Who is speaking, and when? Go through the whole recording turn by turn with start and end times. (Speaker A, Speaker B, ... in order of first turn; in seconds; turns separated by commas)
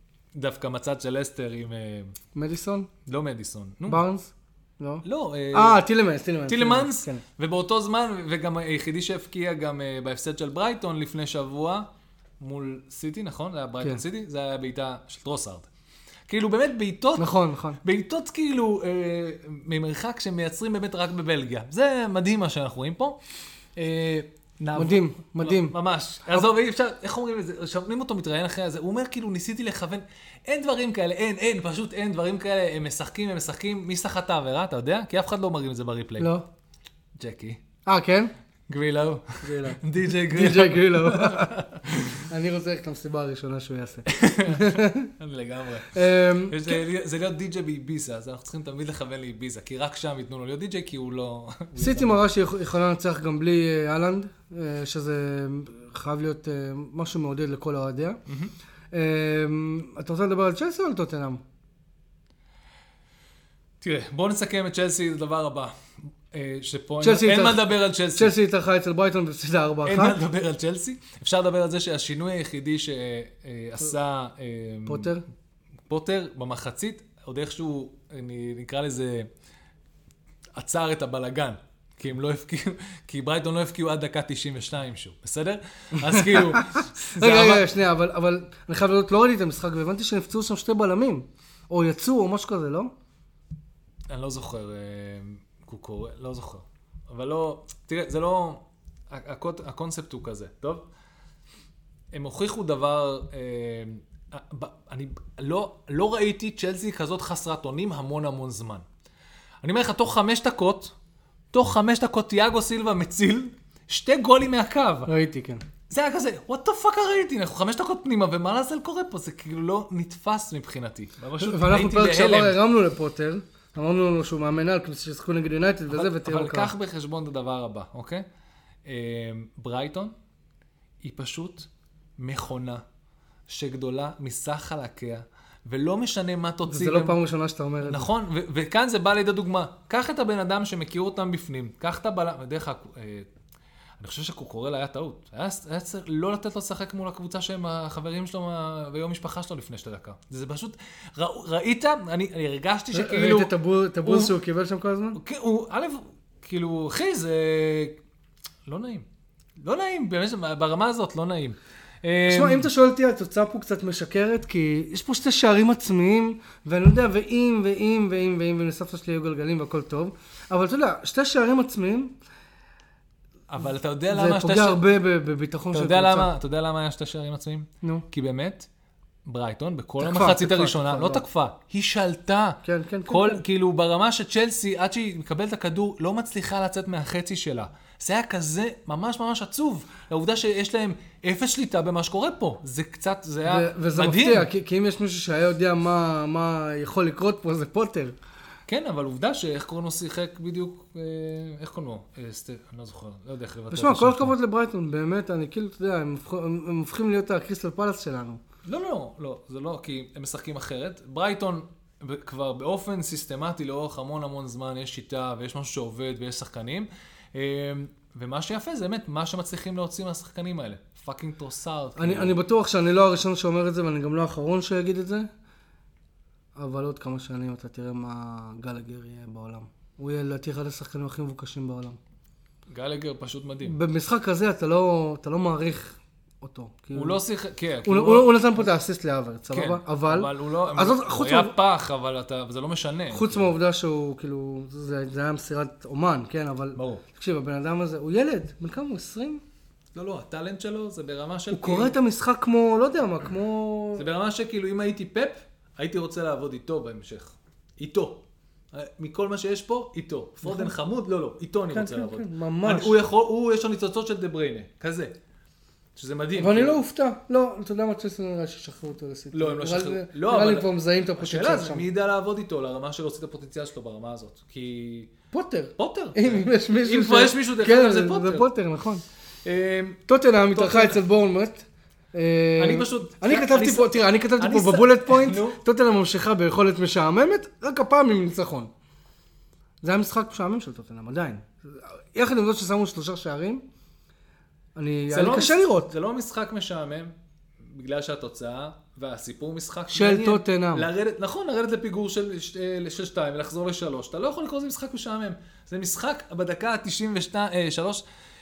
Speaker A: 0.3-2.1, Speaker B: 2.4-2.9, Speaker A: 3.1-4.0, Speaker B: 3.9-7.2, Speaker A: 5.0-5.8, Speaker A: 6.5-11.9, Speaker A: 12.4-15.7, Speaker A: 16.3-23.2, Speaker B: 17.2-17.8, Speaker A: 23.8-36.3, Speaker B: 24.8-25.8, Speaker B: 36.2-36.5, Speaker A: 37.2-37.6, Speaker B: 37.9-38.3, Speaker A: 38.7-42.3, Speaker B: 39.4-41.6, Speaker B: 42.2-45.1, Speaker A: 44.1-52.2, Speaker B: 45.9-46.8, Speaker B: 51.8-58.2, Speaker A: 58.3-58.5, Speaker B: 58.9-61.4, Speaker A: 63.8-68.3, Speaker B: 67.0-70.2, Speaker A: 69.8-75.2, Speaker B: 74.8-75.2, Speaker A: 75.9-79.3, Speaker A: 80.5-87.7, Speaker B: 86.0-92.9, Speaker A: 94.1-100.9, Speaker A: 102.1-108.9, Speaker A: 109.6-111.0, Speaker A: 111.5-115.1, Speaker B: 115.1-115.6, Speaker A: 115.9-122.6, Speaker B: 121.4-126.7, Speaker A: 125.9-128.3, Speaker A: 128.8-130.1, Speaker A: 131.0-132.8, Speaker A: 133.5-137.2, Speaker B: 136.7-138.1, Speaker A: 137.8-143.3, Speaker A: 144.0-153.5, Speaker B: 152.9-155.2, Speaker A: 154.0-154.3, Speaker A: 155.2-158.0, Speaker A: 158.7-159.1, Speaker A: 159.6-162.7, Speaker B: 162.3-172.1, Speaker A: 173.5-174.8, Speaker B: 174.1-176.3, Speaker A: 175.7-178.7, Speaker A: 179.2-194.5, Speaker B: 180.0-181.2, Speaker B: 182.6-183.4, Speaker B: 193.5-198.2, Speaker A: 198.7-204.3, Speaker B: 203.7-208.4, Speaker A: 208.7-222.3, Speaker B: 222.0-225.3, Speaker B: 226.6-232.0, Speaker A: 232.7-233.8, Speaker B: 233.6-237.2, Speaker A: 236.9-238.7, Speaker B: 237.8-241.6, Speaker A: 239.5-243.6, Speaker B: 243.1-249.4, Speaker A: 246.8-247.0, Speaker A: 249.9-251.9, Speaker B: 251.5-254.1, Speaker A: 254.0-265.1, Speaker B: 260.4-260.7, Speaker B: 261.7-263.0, Speaker A: 265.9-266.8, Speaker B: 266.4-271.9, Speaker A: 269.3-275.1, Speaker B: 275.3-279.0, Speaker A: 275.8-278.5, Speaker A: 279.4-280.0, Speaker B: 280.1-288.7, Speaker A: 280.5-281.0, Speaker A: 282.6-285.6, Speaker B: 289.8-293.6, Speaker B: 294.8-295.9, Speaker A: 295.1-308.0, Speaker B: 299.9-300.9